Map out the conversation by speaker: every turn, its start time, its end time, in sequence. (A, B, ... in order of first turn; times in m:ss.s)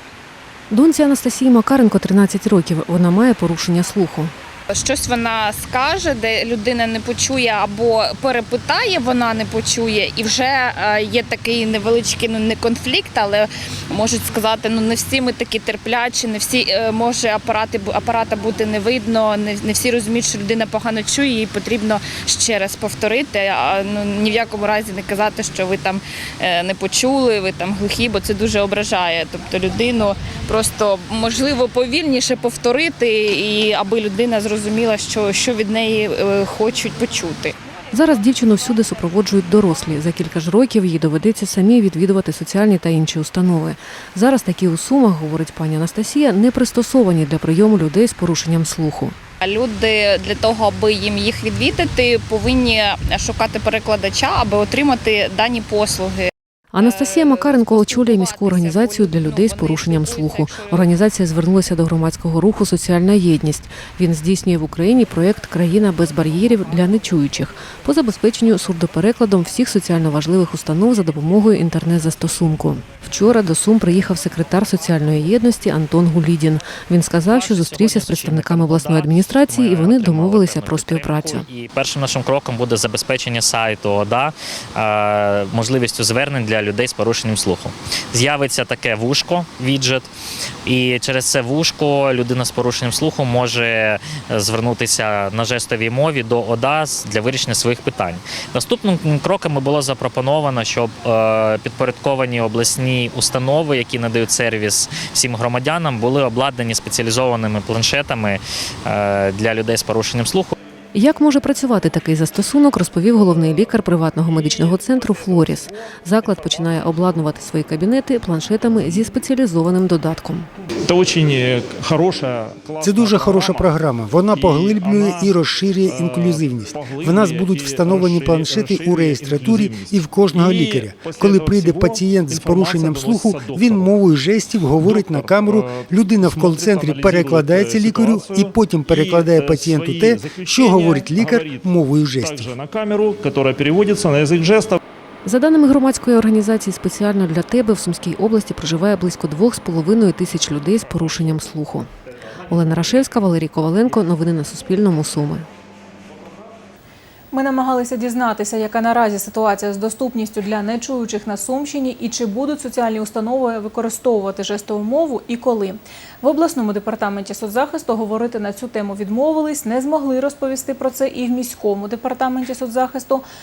0:00.7-0:04.3 A
0:04.7-0:37.5 B
0:37.9-0:49.1 A
0:49.4-1:00.9 B
0:56.7-1:21.5 A
1:17.3-1:30.1 C
1:30.6-1:50.5 C
1:50.9-2:00.5 A
1:54.2-1:57.3 D
1:58.6-1:59.1 D
2:00.8-2:03.8 D
2:02.8-2:22.5 E
2:04.3-2:14.0 D
2:14.6-2:24.8 D
2:25.2-2:31.9 A
2:32.5-2:35.4 A
2:37.3-2:53.2 F